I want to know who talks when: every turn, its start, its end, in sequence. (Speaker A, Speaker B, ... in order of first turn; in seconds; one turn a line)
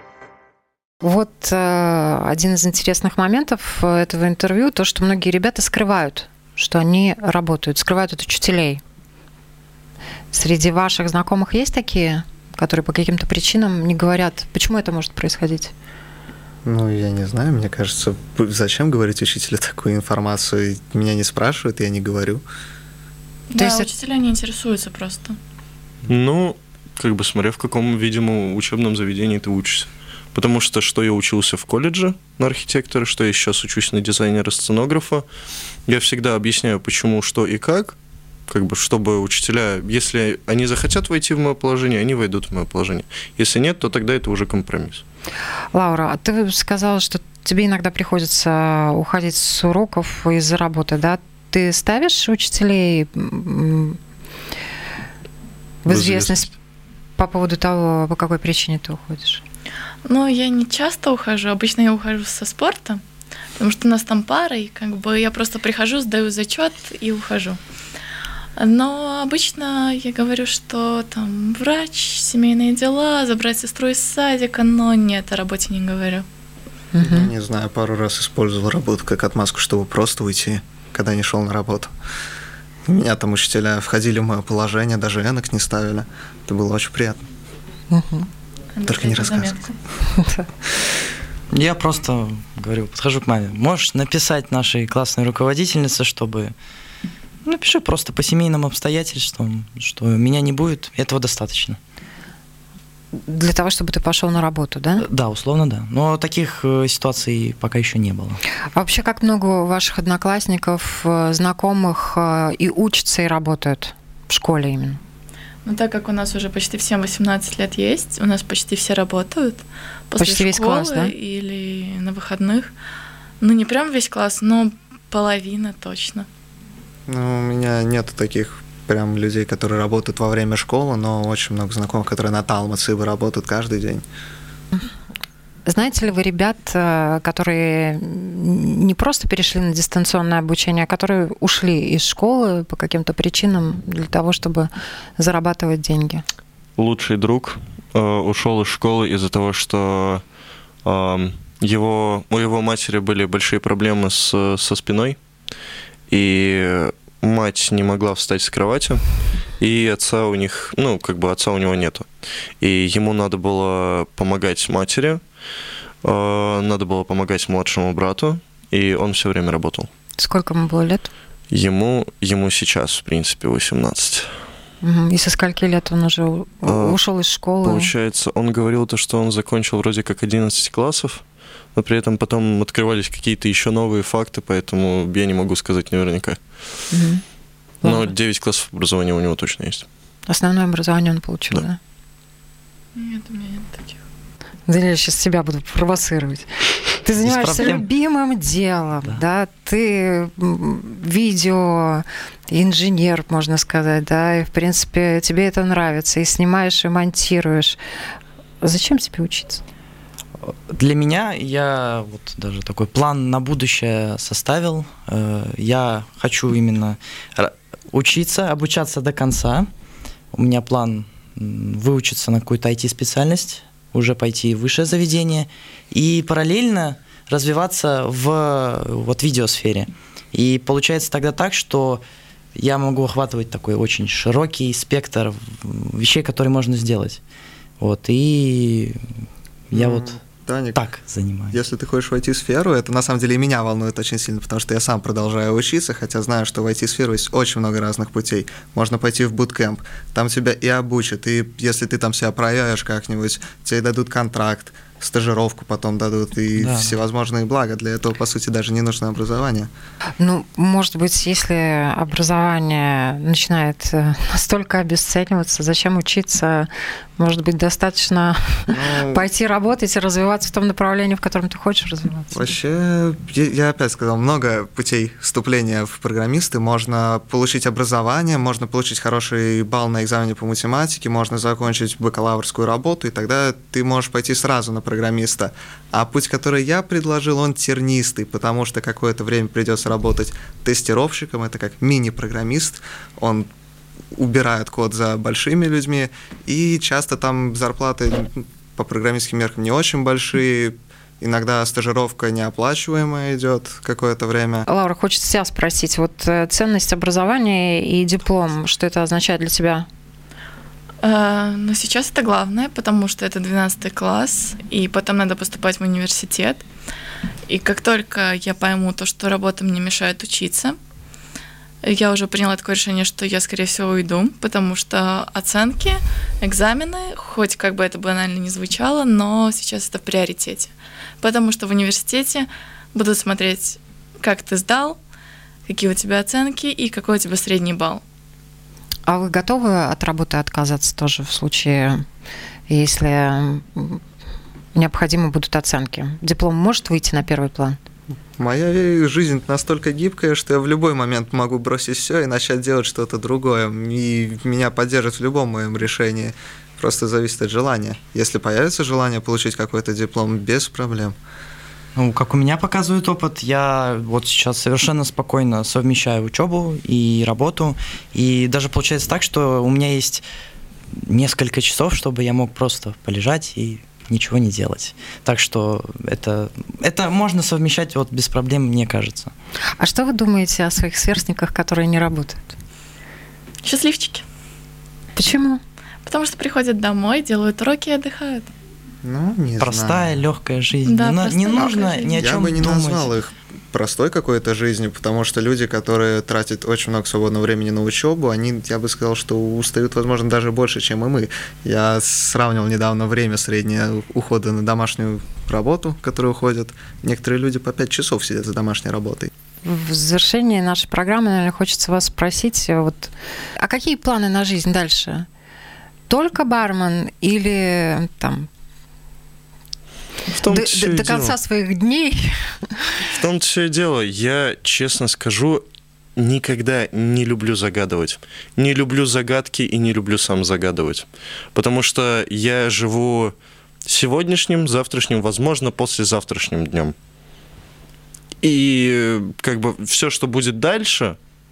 Speaker A: 1.0-8.8
Speaker A: 10.3-15.7
Speaker B: 16.6-22.4
Speaker C: 23.5-25.4
Speaker A: 23.6-23.9
Speaker D: 26.1-35.2
Speaker D: 35.9-38.0
Speaker D: 38.5-45.0
Speaker A: 45.7-54.0
Speaker A: 55.9-56.5
Speaker D: 55.9-56.5
Speaker A: 57.2-59.4
Speaker C: 60.1-63.0
Speaker C: 63.6-67.6
Speaker C: 68.6-76.3
Speaker A: 76.9-77.3
Speaker B: 77.0-81.9
Speaker B: 82.8-87.2
Speaker A: 87.9-88.3
Speaker C: 88.8-89.7
Speaker B: 88.9-89.6
Speaker A: 90.2-90.5
Speaker E: 91.5-96.5
Speaker E: 97.5-101.8
Speaker A: 103.1-105.0
Speaker E: 105.0-108.4
Speaker A: 108.8-115.0
Speaker C: 115.7-122.7
Speaker A: 120.2-121.1
Speaker C: 123.4-126.3
Speaker B: 127.1-134.0
Speaker A: 135.7-146.2
Speaker D: 146.8-150.2
Speaker D: 150.8-155.2
Speaker D: 156.1-159.0
Speaker D: 159.6-162.1
Speaker D: 162.6-165.2
Speaker D: 166.0-169.9
Speaker A: 170.2-171.1
Speaker D: 171.5-174.3
Speaker A: 174.8-177.9
Speaker D: 176.7-177.0
Speaker D: 177.6-181.2
Speaker D: 181.8-186.4
Speaker A: 186.9-187.2
Speaker A: 187.8-188.1
Speaker D: 187.8-189.9
Speaker A: 190.3-191.8
Speaker C: 193.0-194.0
Speaker A: 194.7-196.5
Speaker A: 197.0-207.8
Speaker E: 197.2-197.8
Speaker A: 208.6-209.6
Speaker E: 210.4-219.7
Speaker E: 220.3-232.0
Speaker E: 232.6-237.2
Speaker E: 237.8-239.0
Speaker E: 239.7-240.2
Speaker B: 239.7-240.9
Speaker E: 240.8-241.6
Speaker B: 241.5-259.7
Speaker E: 256.6-257.0
Speaker A: 260.2-272.5
Speaker B: 268.7-269.2
Speaker B: 272.3-293.5
Speaker B: 294.1-304.6
Speaker A: 304.7-309.9
Speaker C: 311.0-316.6
Speaker C: 317.5-320.8
Speaker C: 321.8-335.0
Speaker C: 335.7-338.0
Speaker A: 339.1-342.1
Speaker A: 342.7-344.0
Speaker A: 344.8-347.8
Speaker B: 348.4-361.2
Speaker E: 362.0-370.2
Speaker E: 370.9-379.3
Speaker A: 379.8-382.6
Speaker C: 383.6-384.2
Speaker A: 385.2-385.6
Speaker C: 386.1-388.5
Speaker B: 389.0-390.2
Speaker E: 389.6-393.1
Speaker C: 390.9-392.5
Speaker B: 392.2-409.3
Speaker A: 409.6-415.3
Speaker A: 416.1-418.5
Speaker D: 420.3-421.3
Speaker A: 420.5-422.7
Speaker D: 423.1-425.6
Speaker D: 426.2-433.3
Speaker D: 433.9-436.9
Speaker D: 438.4-441.2